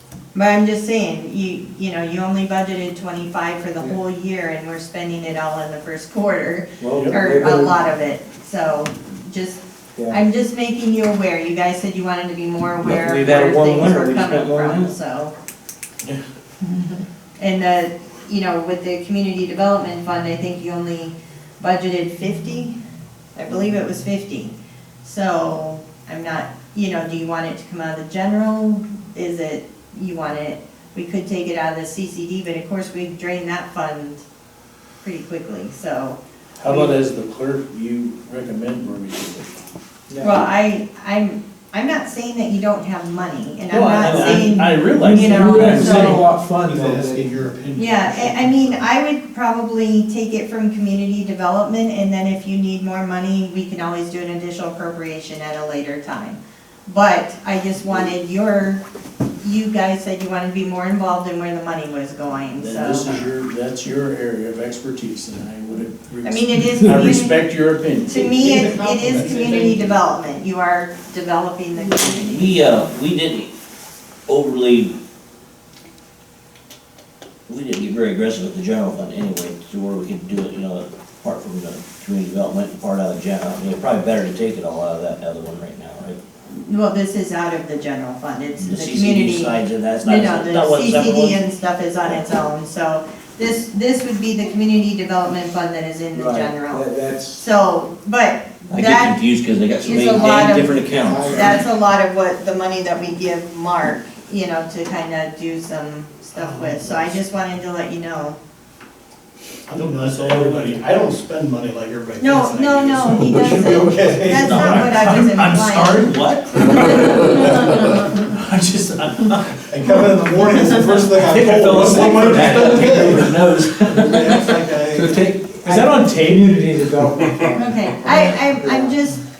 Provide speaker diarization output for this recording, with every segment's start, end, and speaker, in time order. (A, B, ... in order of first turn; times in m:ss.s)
0:00.3-0:15.3 A
0:06.8-0:07.8 B
0:06.9-0:07.2 C
0:10.0-0:10.2 B
0:12.8-0:14.9 D
0:16.6-0:22.8 A
0:23.4-0:34.2 A
0:35.0-0:36.9 A
0:36.6-0:39.6 C
0:40.1-0:40.4 B
0:40.2-0:46.2 A
0:43.7-0:46.1 C
0:44.0-0:47.4 B
0:46.0-0:48.9 E
0:47.7-0:58.8 A
0:59.4-1:03.3 A
1:02.6-1:08.6 C
1:06.2-1:07.4 A
1:08.0-1:12.7 A
1:08.4-1:09.8 E
1:12.3-1:13.5 D
1:14.3-1:14.9 D
1:17.5-1:26.2 D
1:26.4-1:39.2 A
1:28.6-1:31.4 D
1:36.1-1:37.5 B
1:38.7-1:41.6 D
1:39.8-1:48.4 A
1:41.0-1:41.5 B
1:46.3-1:47.1 E
1:49.7-1:55.0 E
1:49.8-1:50.5 C
1:50.4-1:50.8 B
1:52.2-1:56.1 A
1:54.3-1:56.6 D
1:54.7-1:55.2 C
1:56.9-2:03.6 C
1:59.7-2:05.7 E
2:00.8-2:04.6 D
2:04.9-2:09.0 B
2:05.2-2:06.6 C
2:07.6-2:09.2 A